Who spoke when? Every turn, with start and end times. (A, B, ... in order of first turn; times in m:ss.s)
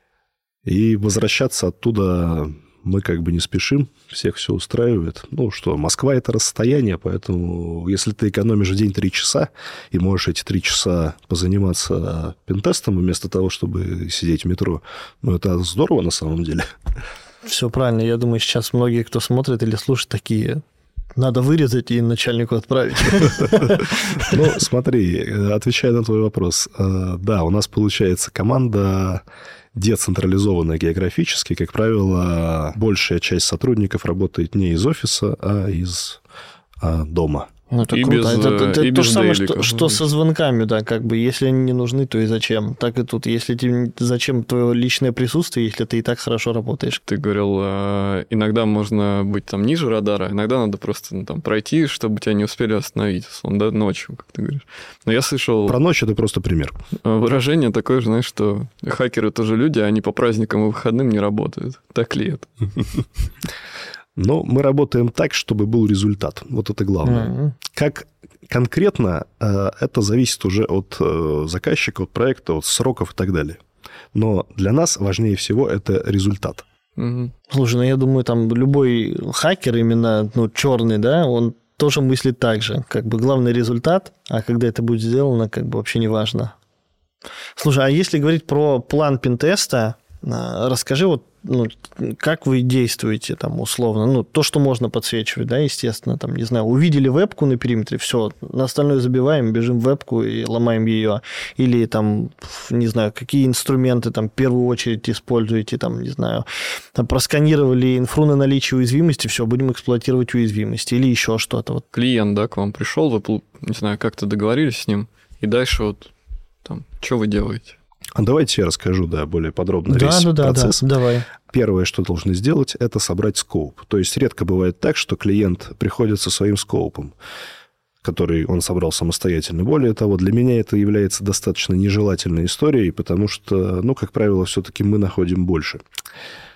0:00.6-0:16.7 A
0:17.4-0:20.6 B
0:21.2-0:24.3 B
0:24.2-0:36.2 A
0:36.8-0:37.5 A
0:37.7-0:47.0 B
0:37.9-0:40.0 C
0:47.0-0:55.8 C
0:55.7-0:56.8 A
0:57.0-1:03.1 C
1:04.2-1:13.6 A
1:07.0-1:07.5 B
1:14.1-1:16.6 A
1:17.0-1:17.3 C
1:17.5-1:26.5 B
1:27.6-1:51.8 B
1:51.9-1:56.1 C
1:56.6-1:57.8 C
1:58.2-2:07.1 A
1:59.9-2:01.2 B
2:08.0-2:15.8 A